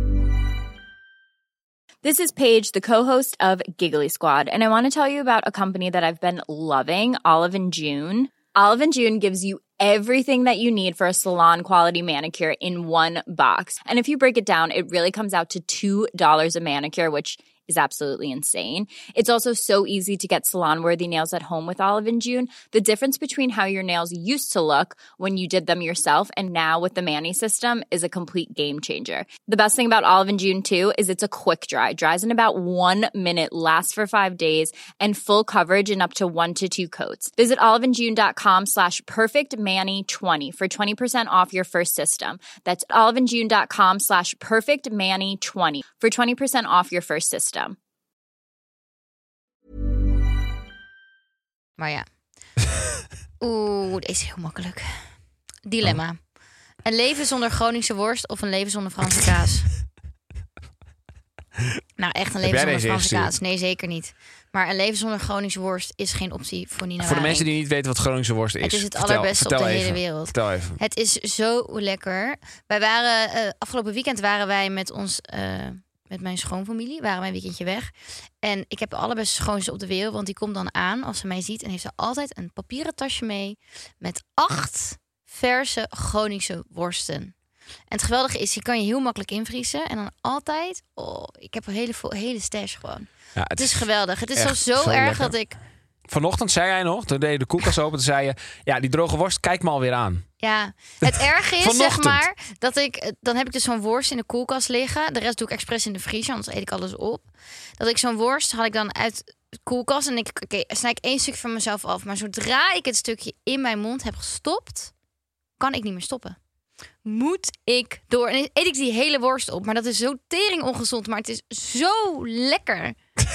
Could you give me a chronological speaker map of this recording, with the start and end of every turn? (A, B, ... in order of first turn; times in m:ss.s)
0:02.0-0:47.8 A
0:51.8-0:52.1 B
0:53.4-0:55.0 B
0:55.6-0:56.2 B
0:56.8-0:59.7 B
1:02.0-1:07.5 B
1:02.4-1:03.3 C
1:07.0-1:10.8 C
1:08.6-1:27.3 B
1:27.9-1:35.6 B
1:33.4-1:33.8 C
1:34.4-1:35.4 C
1:36.1-1:40.3 C
1:40.4-1:54.9 B
1:41.0-1:42.2 C
1:55.6-1:56.4 B
1:57.0-2:03.0 B